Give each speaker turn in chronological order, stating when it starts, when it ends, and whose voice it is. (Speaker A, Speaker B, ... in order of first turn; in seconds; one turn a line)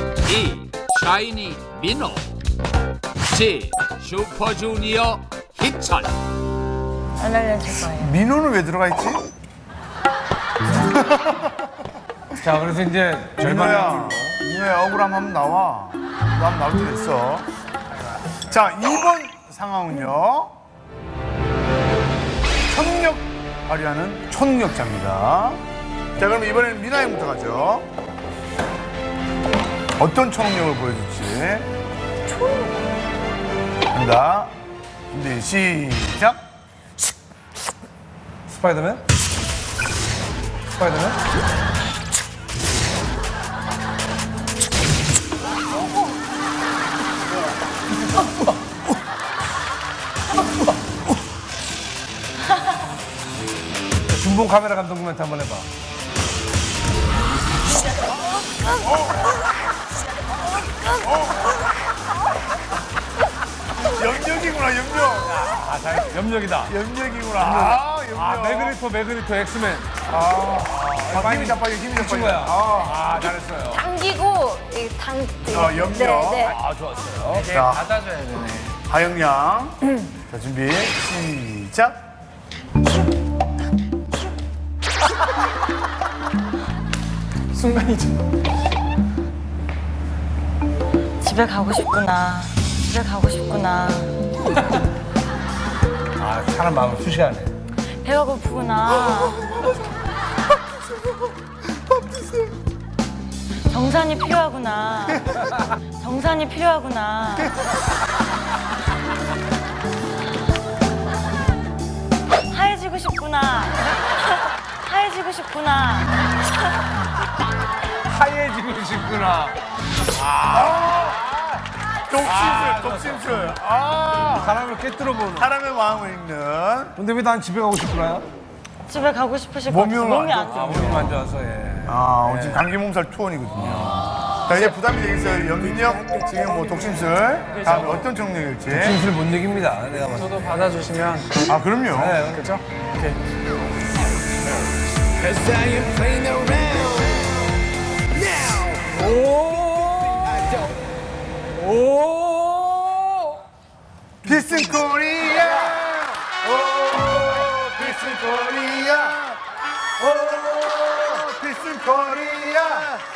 Speaker A: 0.3-2.2
Speaker A: 3.3-6.1
Speaker B: 7.2-8.2
Speaker C: 8.0-9.2
Speaker C: 10.9-11.5
Speaker D: 12.4-14.3
Speaker C: 13.4-17.5
Speaker C: 18.5-20.5
Speaker C: 22.7-25.6
Speaker C: 26.2-27.9
Speaker C: 30.0-31.7
Speaker E: 32.3-32.7
Speaker C: 33.9-34.5
Speaker C: 35.1-36.4
Speaker D: 38.5-39.0
Speaker D: 40.7-41.2
Speaker D: 54.1-55.7
Speaker E: 58.4-58.9
Speaker C: 58.8-59.4
Speaker C: 61.0-61.6
Speaker C: 63.8-65.5
Speaker D: 65.3-66.7
Speaker C: 66.7-68.8
Speaker D: 67.4-70.0
Speaker C: 70.1-73.0
Speaker D: 70.7-73.9
Speaker E: 73.2-76.6
Speaker C: 75.5-76.6
Speaker D: 76.4-77.5
Speaker F: 77.3-78.8
Speaker C: 77.5-77.8
Speaker C: 78.9-79.8
Speaker C: 80.3-82.0
Speaker F: 87.5-88.2
Speaker B: 91.2-94.2
Speaker D: 96.2-97.5
Speaker B: 98.0-99.4
Speaker B: 103.7-105.4
Speaker B: 105.9-107.5
Speaker B: 112.5-116.1
Speaker D: 118.1-119.6
Speaker D: 120.1-121.6
Speaker C: 120.5-121.3
Speaker C: 122.1-124.6
Speaker D: 122.2-123.6
Speaker D: 124.4-125.5
Speaker C: 125.4-127.0
Speaker D: 127.0-128.3
Speaker B: 128.8-131.1
Speaker C: 129.7-131.2
Speaker D: 130.3-132.6
Speaker C: 131.8-139.0
Speaker F: 137.5-138.1
Speaker D: 138.7-140.4
Speaker F: 140.1-141.4
Speaker C: 141.5-142.2
Speaker D: 141.9-142.5
Speaker F: 142.3-143.2
Speaker D: 145.4-147.1
Speaker D: 148.4-150.5
Speaker D: 151.6-152.8
Speaker D: 154.2-154.8
Speaker C: 154.2-159.4
Speaker D: 155.4-155.7
Speaker D: 156.3-157.5
Speaker D: 160.0-161.1
Speaker C: 160.1-163.0